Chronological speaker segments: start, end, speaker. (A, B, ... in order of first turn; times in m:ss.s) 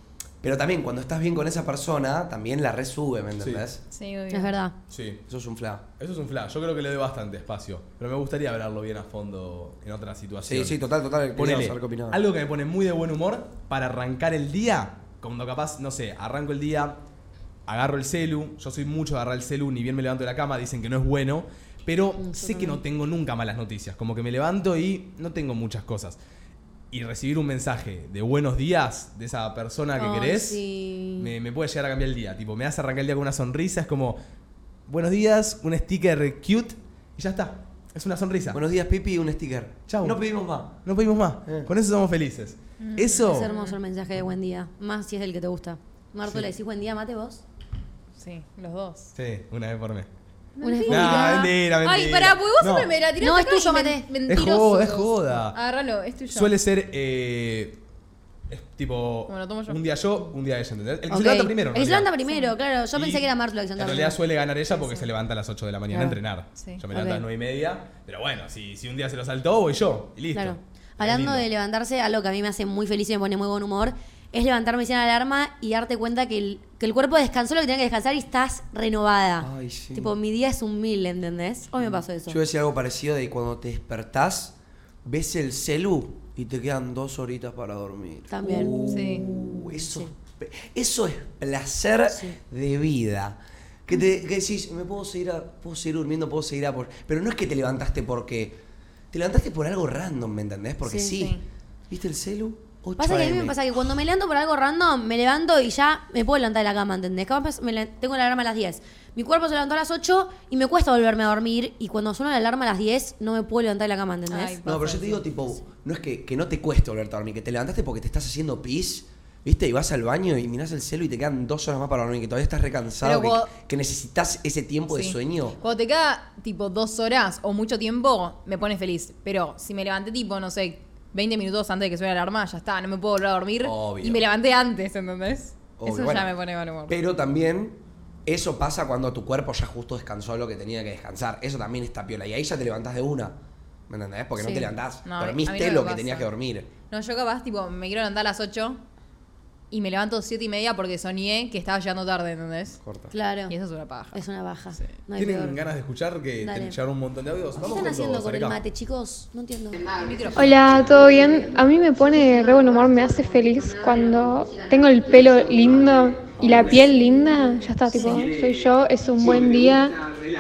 0:00.4-0:03.8 A
0:03.9-0:04.6 B
0:04.3-0:04.8 C
0:04.9-0:05.2 D
0:05.3-0:05.8 A
0:06.0-0:10.8 D
0:10.4-0:12.2 A
0:11.4-0:17.0 D
0:17.7-0:26.2 D
0:22.2-0:22.8 C
0:26.9-0:30.6 D
0:30.0-0:31.3 C
0:31.2-0:34.2 D
0:34.9-0:38.6 D
0:38.5-0:40.8 A
0:39.9-0:40.2 D
0:40.8-0:43.5 D
0:42.8-0:43.8 B
0:43.3-0:47.4 C
0:46.2-0:46.5 D
0:48.2-0:49.1 B
0:49.2-0:50.1 D
0:50.6-0:56.5 B
0:50.6-0:51.5 C
0:50.9-0:52.9 D
0:53.2-0:54.0 C
0:54.3-0:55.6 D
0:56.3-0:57.8 D
0:58.5-1:02.1 D
0:59.3-1:00.2 B
1:01.1-1:04.2 C
1:02.3-1:02.5 B
1:02.9-1:11.5 D
1:04.7-1:05.1 B
1:06.6-1:06.8 B
1:06.9-1:07.2 C
1:10.3-1:22.4 C
1:19.4-1:20.1 A
1:21.8-1:38.6 A
1:28.3-1:28.8 C
1:28.9-1:29.3 B
1:29.8-1:30.1 C
1:32.1-1:32.4 C
1:39.1-1:43.6 A
1:40.9-1:41.2 C
1:41.2-1:41.4 B
1:43.0-1:54.6 C
1:54.3-1:55.3 B
1:54.6-2:05.6 A
2:03.0-2:03.5 B
2:04.9-2:17.0 B
2:13.6-2:14.2 D
2:15.8-2:16.3 A
2:16.9-2:23.4 A
2:23.9-2:26.7 A
2:24.4-2:24.7 C
2:25.0-2:26.3 B
2:26.9-2:28.8 B
2:29.7-2:32.8 B
2:32.8-2:33.1 A
2:33.1-2:33.6 C
2:33.5-2:34.2 B
2:34.1-2:35.6 C
2:35.2-2:38.6 D
2:36.4-2:36.8 C
2:37.6-2:39.9 C
2:39.9-2:40.6 B
2:40.4-2:50.0 E
2:48.0-2:48.3 B